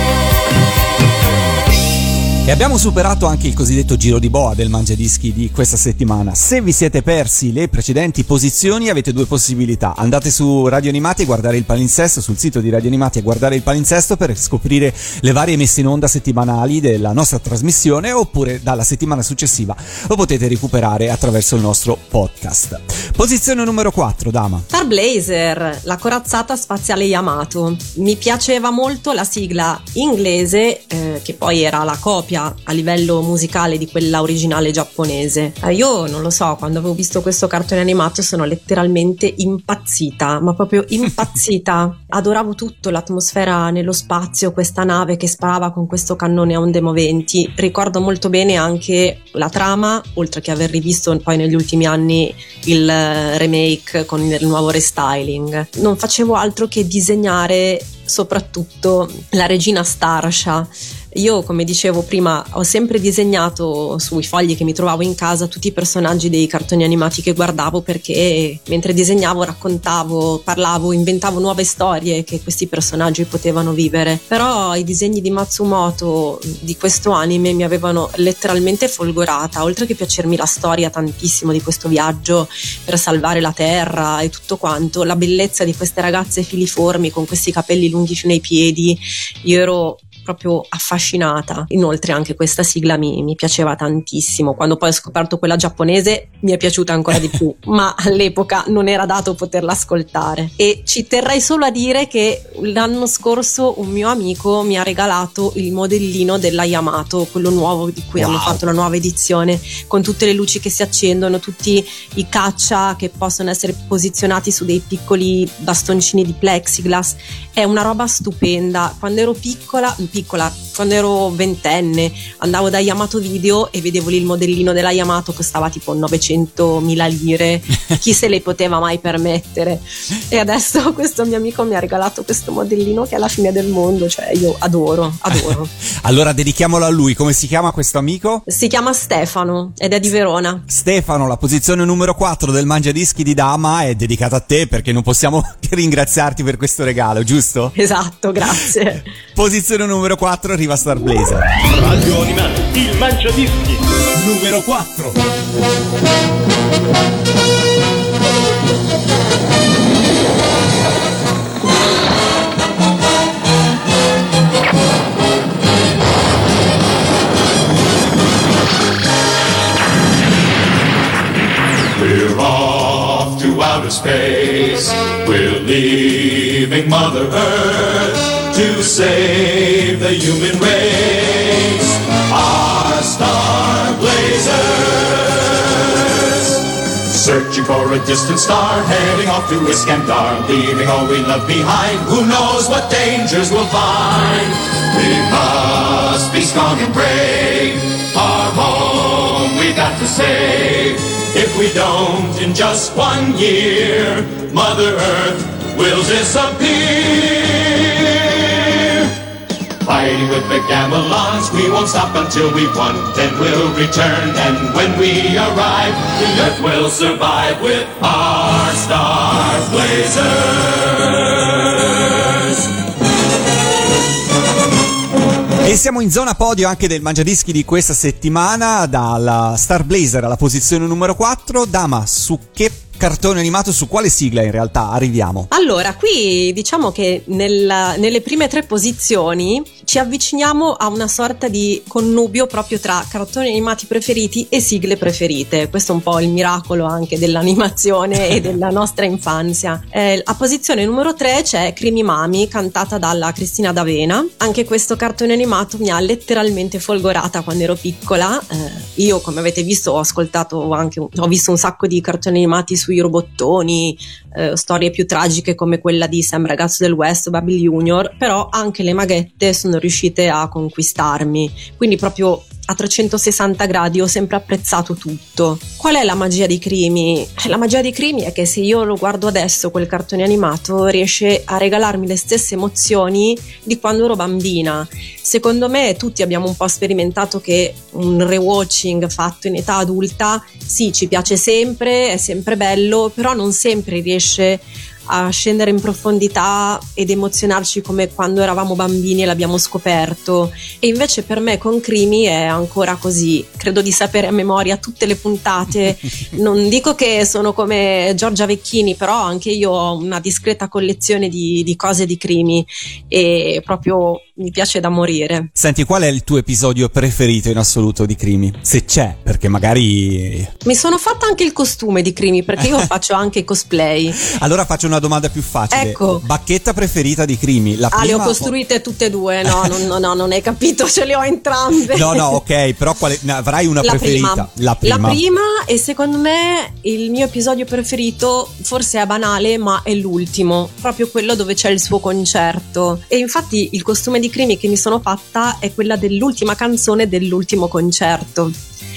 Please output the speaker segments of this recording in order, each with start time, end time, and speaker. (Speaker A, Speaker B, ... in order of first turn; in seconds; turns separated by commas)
Speaker A: 2.5-24.7, Speaker B: 24.7-135.7, Speaker A: 108.2-108.6, Speaker A: 136.0-138.4, Speaker B: 138.5-140.7, Speaker A: 140.7-147.8, Speaker B: 147.8-149.0, Speaker A: 149.3-151.5, Speaker C: 151.8-155.2, Speaker D: 171.9-209.1, Speaker D: 209.8-221.3, Speaker A: 225.6-235.5, Speaker B: 235.5-315.5, Speaker A: 315.6-320.5, Speaker B: 320.6-324.2, Speaker A: 324.2-328.5, Speaker B: 325.7-326.2, Speaker B: 327.9-332.4, Speaker A: 329.5-329.7, Speaker A: 331.9-335.2, Speaker B: 333.8-348.6